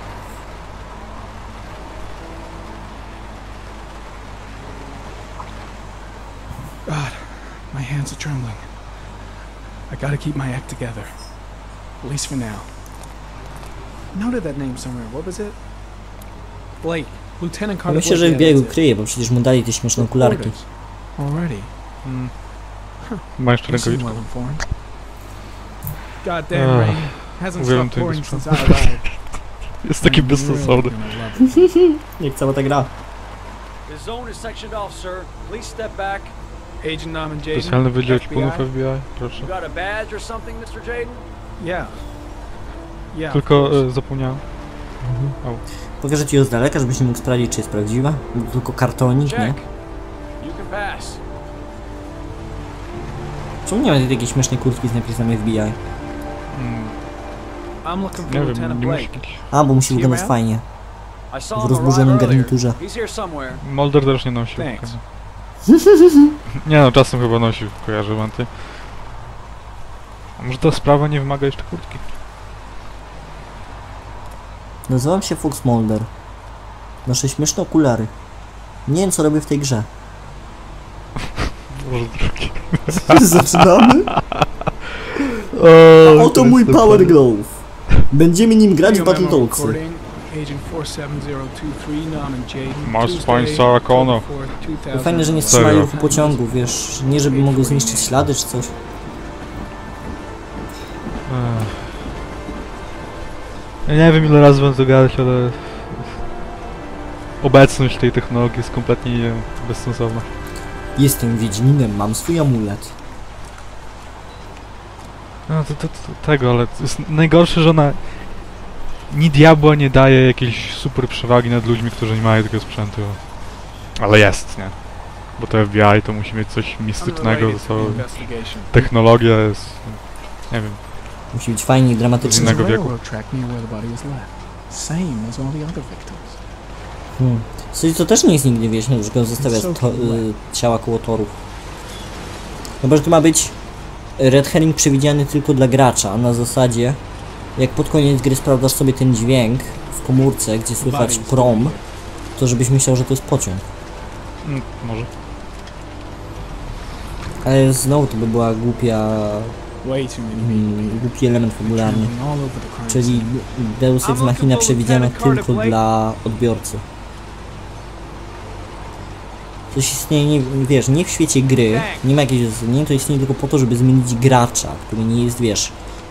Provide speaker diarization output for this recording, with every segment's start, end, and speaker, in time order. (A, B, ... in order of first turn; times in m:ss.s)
0:06.8-0:08.8 A
0:09.9-0:12.7 A
0:14.1-0:15.6 A
0:16.8-0:18.8 A
0:17.9-0:20.6 B
0:20.0-0:21.7 A
0:22.0-0:22.3 C
0:23.0-0:24.7 A
0:23.4-0:24.2 C
0:26.2-0:29.2 A
0:26.5-0:28.9 C
0:29.8-0:31.0 C
0:30.0-0:31.8 A
0:31.8-0:32.9 B
0:33.9-0:36.4 D
0:36.8-0:38.7 A
0:37.5-0:39.5 C
0:39.4-0:41.2 D
0:41.6-0:42.1 A
0:43.1-0:43.9 A
0:43.3-0:44.5 C
0:45.0-0:45.4 B
0:46.0-0:49.6 B
0:49.2-0:49.6 D
0:50.4-0:51.2 D
0:53.6-0:55.8 B
0:56.5-0:57.0 C
0:57.8-1:00.4 A
0:58.3-0:59.4 C
0:59.5-1:00.6 B
1:01.3-1:03.6 D
1:01.5-1:02.8 B
1:03.6-1:05.0 C
1:04.6-1:05.0 A
1:06.6-1:08.6 C
1:10.4-1:12.0 C
1:14.9-1:16.1 B
1:17.0-1:18.1 B
1:18.9-1:19.9 B
1:21.8-1:23.0 C
1:22.9-1:24.1 B
1:25.4-1:27.2 C
1:26.0-1:29.8 B
1:28.8-1:36.6 A
1:32.8-1:34.3 C
1:34.9-1:38.7 B
1:35.5-1:35.9 C
1:37.1-1:38.2 A
1:41.3-1:42.0 C
1:43.8-1:46.2 C
1:47.4-1:50.4 C
1:51.0-1:52.9 B
1:55.5-2:10.8 C
2:07.0-2:08.9 A
2:11.3-2:12.6 B
2:12.2-2:13.0 C
2:12.2-2:16.4 A
2:17.2-2:21.4 B
2:19.4-2:20.3 A
2:22.8-2:23.6 B
2:24.2-2:27.0 B
2:27.6-2:31.8 B
2:30.8-2:31.8 A
2:32.4-2:33.6 B
2:34.4-2:35.1 C
2:37.4-2:39.6 B
2:39.8-2:41.0 A
2:40.3-2:42.1 B
2:41.6-2:43.3 A
2:42.9-2:46.8 B
2:44.0-2:45.7 D
2:49.7-2:55.8 B
2:51.6-2:52.0 D